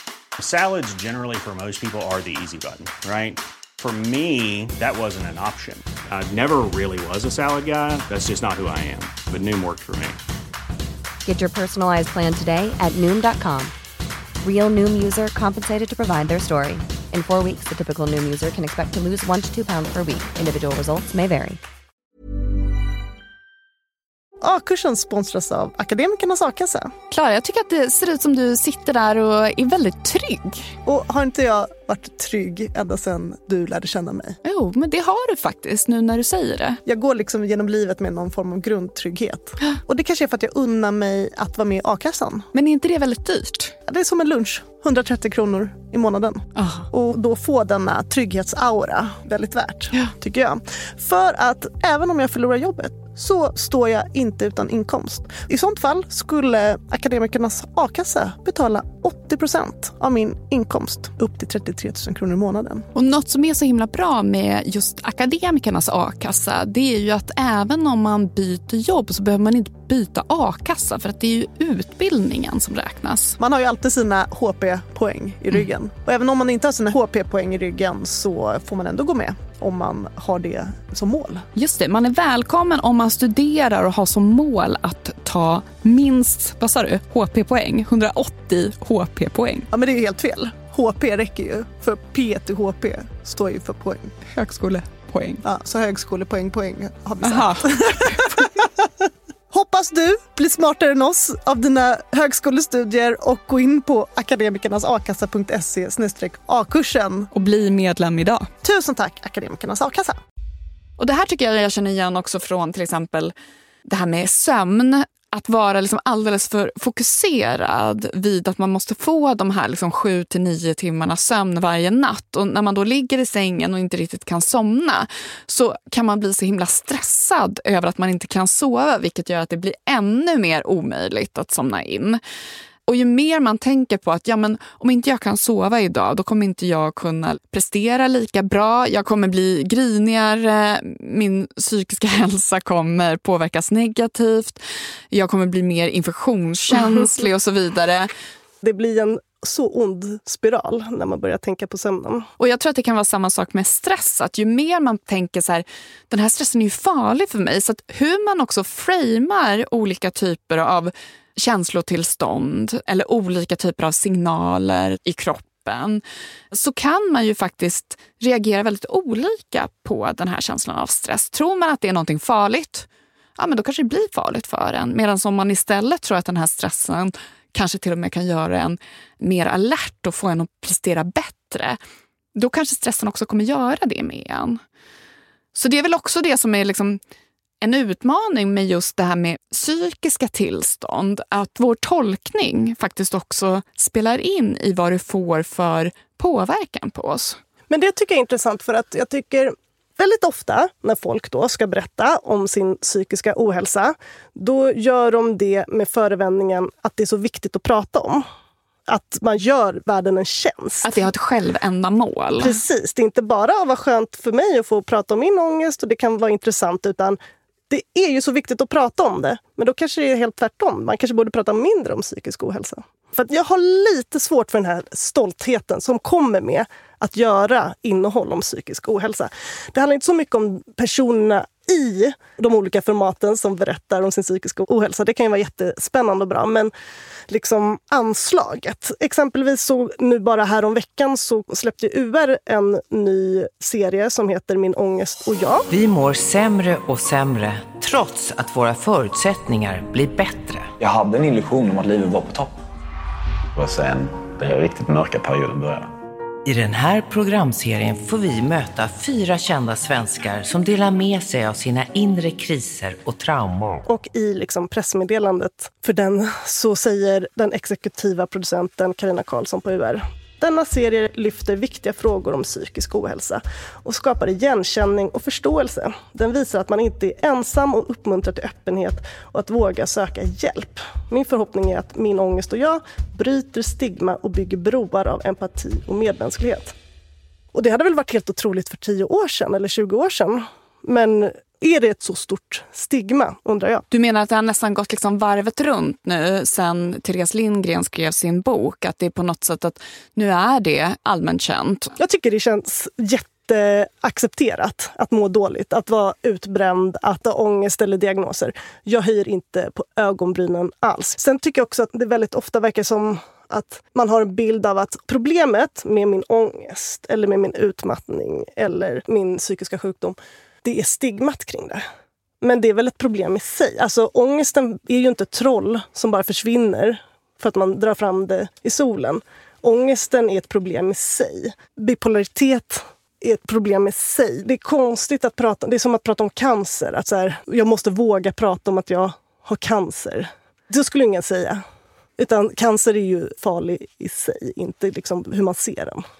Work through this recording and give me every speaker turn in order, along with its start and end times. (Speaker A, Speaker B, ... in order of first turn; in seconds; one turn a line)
Speaker A: 0.4-10.2
Speaker B: 11.2-13.7
Speaker B: 14.4-21.6
Speaker C: 24.4-26.9
Speaker D: 27.1-30.7
Speaker C: 30.9-34.4
Speaker D: 34.4-36.8
Speaker C: 36.9-42.5
Speaker D: 42.5-43.7
Speaker C: 43.9-62.9
Speaker D: 46.5-46.9
Speaker D: 62.9-73.4
Speaker C: 73.4-81.4
Speaker D: 81.5-89.7
Speaker C: 89.7-94.2
Speaker D: 94.2-95.4
Speaker C: 95.4-98.9
Speaker D: 97.2-98.3
Speaker C: 99.5-107.3
Speaker D: 107.3-108.5
Speaker C: 108.6-110.2
Speaker D: 111.0-113.3
Speaker D: 113.9-132.2
Speaker D: 132.9-144.6
Speaker D: 145.1-148.1
Speaker E: 148.6-152.3
Speaker D: 152.4-181.8
Speaker D: 182.3-184.6
Speaker D: 185.5-187.0
Speaker D: 187.6-197.4
Speaker E: 197.7-208.2
Speaker E: 208.9-210.9
Speaker D: 210.8-212.6
Speaker E: 212.4-217.2
Speaker E: 217.7-236.7
Speaker E: 237.3-245.7
Speaker F: 245.7-250.7
Speaker G: 250.8-252.5
Speaker G: 253.6-255.9
Speaker F: 256.4-263.8
Speaker E: 263.9-286.7
Speaker E: 287.5-293.8
Speaker D: 293.9-301.9
Speaker E: 302.0-321.8
Speaker E: 322.4-341.6
Speaker E: 342.2-346.0